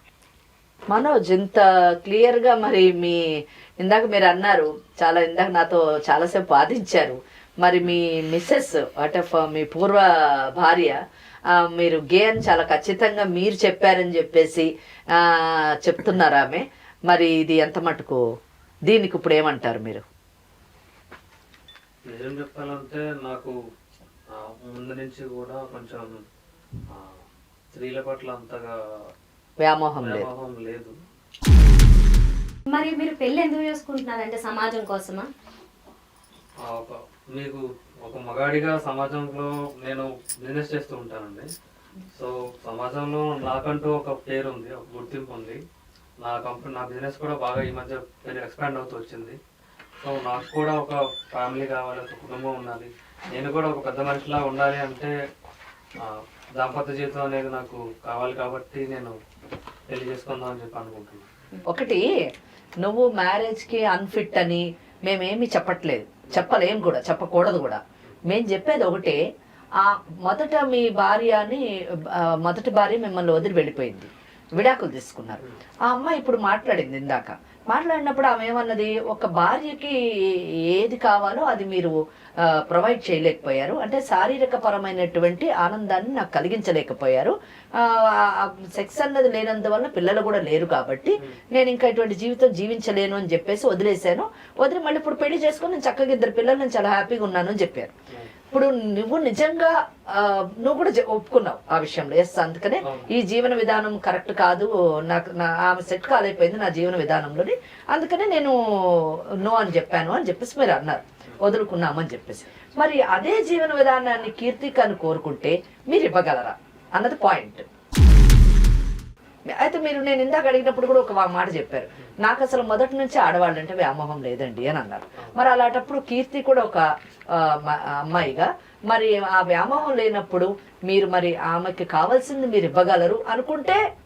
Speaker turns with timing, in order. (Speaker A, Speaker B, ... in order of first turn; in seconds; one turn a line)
Speaker A: 0.9-11.0
Speaker A: 11.5-18.2
Speaker A: 18.9-20.0
Speaker B: 22.1-23.5
Speaker B: 24.3-26.1
Speaker B: 26.9-28.7
Speaker A: 29.6-30.3
Speaker B: 30.0-30.9
Speaker C: 32.7-35.3
Speaker B: 36.6-41.5
Speaker B: 42.1-45.6
Speaker B: 46.2-49.4
Speaker B: 50.0-55.1
Speaker B: 56.0-59.1
Speaker B: 59.9-61.3
Speaker A: 61.7-62.0
Speaker A: 62.8-69.2
Speaker A: 69.8-97.9
Speaker A: 98.5-117.6
Speaker A: 119.5-133.8